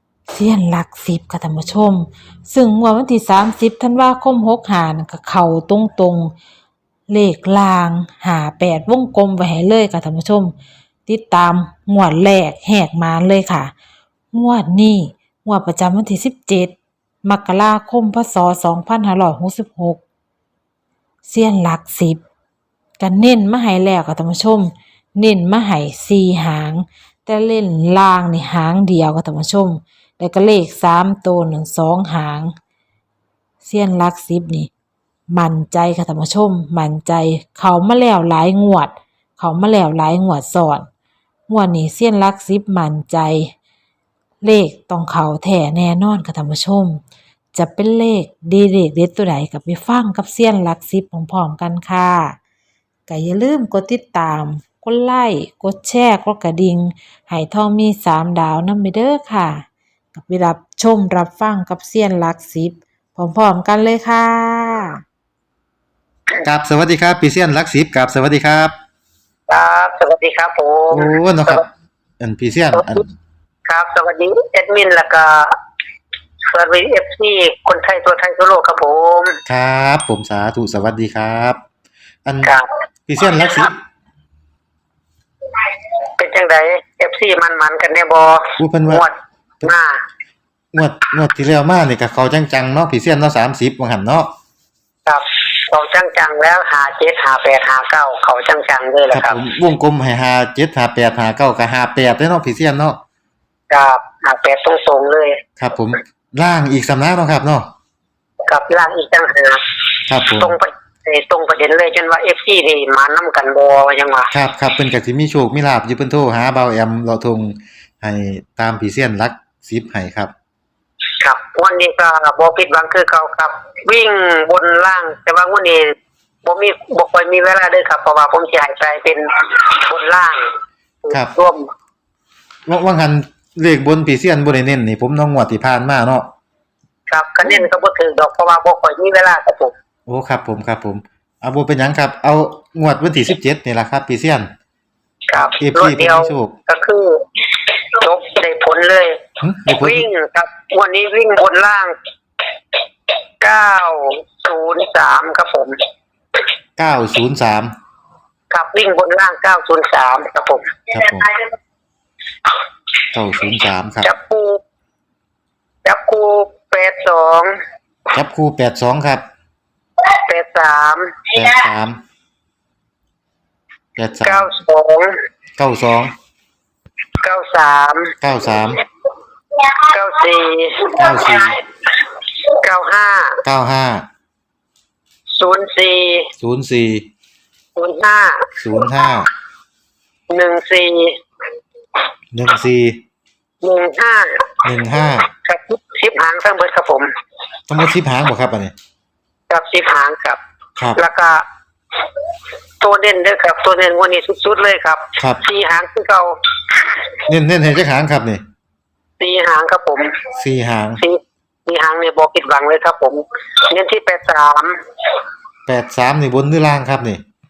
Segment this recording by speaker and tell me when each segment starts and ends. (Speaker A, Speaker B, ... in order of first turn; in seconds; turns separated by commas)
Speaker A: 0.3-6.3, Speaker A: 7.1-10.5, Speaker A: 11.1-13.7, Speaker A: 14.3-20.0, Speaker A: 21.2-22.2, Speaker A: 23.0-32.5, Speaker A: 33.6-34.7, Speaker A: 35.3-40.9, Speaker A: 41.5-43.5, Speaker A: 44.4-47.0, Speaker A: 47.5-52.4, Speaker A: 53.1-65.0, Speaker B: 66.4-68.7, Speaker C: 69.5-71.6, Speaker B: 70.9-71.7, Speaker B: 72.2-73.0, Speaker C: 73.7-75.5, Speaker C: 76.5-79.4, Speaker B: 79.5-81.6, Speaker B: 82.2-82.5, Speaker B: 83.1-83.8, Speaker C: 85.6-90.0, Speaker B: 88.6-89.0, Speaker B: 90.7-94.3, Speaker C: 95.0-99.4, Speaker B: 99.1-103.0, Speaker C: 103.7-105.4, Speaker B: 105.6-107.7, Speaker C: 108.5-109.6, Speaker B: 110.1-110.5, Speaker C: 110.4-114.3, Speaker B: 114.3-120.3, Speaker C: 121.2-130.5, Speaker C: 131.0-131.7, Speaker B: 132.7-136.3, Speaker C: 137.1-139.7, Speaker B: 140.1-144.5, Speaker C: 145.3-151.9, Speaker B: 145.3-146.5, Speaker B: 149.4-150.0, Speaker C: 153.4-155.8, Speaker B: 156.8-157.7, Speaker C: 158.5-161.5, Speaker B: 163.1-164.1, Speaker C: 164.0-164.6, Speaker C: 165.8-167.5, Speaker B: 168.1-169.2, Speaker C: 170.0-171.5, Speaker B: 171.3-172.0, Speaker B: 173.9-174.5, Speaker C: 174.2-175.2, Speaker B: 175.6-176.1, Speaker C: 177.2-178.1, Speaker B: 178.2-178.8, Speaker C: 179.6-181.6, Speaker B: 180.9-181.6, Speaker C: 182.2-183.4, Speaker B: 183.4-184.1, Speaker C: 185.3-186.3, Speaker B: 186.4-187.1, Speaker C: 187.8-188.5, Speaker B: 188.6-189.3, Speaker C: 190.3-191.2, Speaker B: 192.3-193.0, Speaker C: 193.6-194.5, Speaker B: 194.6-195.3, Speaker C: 195.3-197.1, Speaker B: 197.7-198.7, Speaker C: 199.5-200.4, Speaker C: 201.0-201.4, Speaker C: 202.8-207.1, Speaker B: 207.3-208.4, Speaker C: 209.2-210.2, Speaker B: 210.3-211.0, Speaker C: 211.0-215.1, Speaker B: 215.7-217.2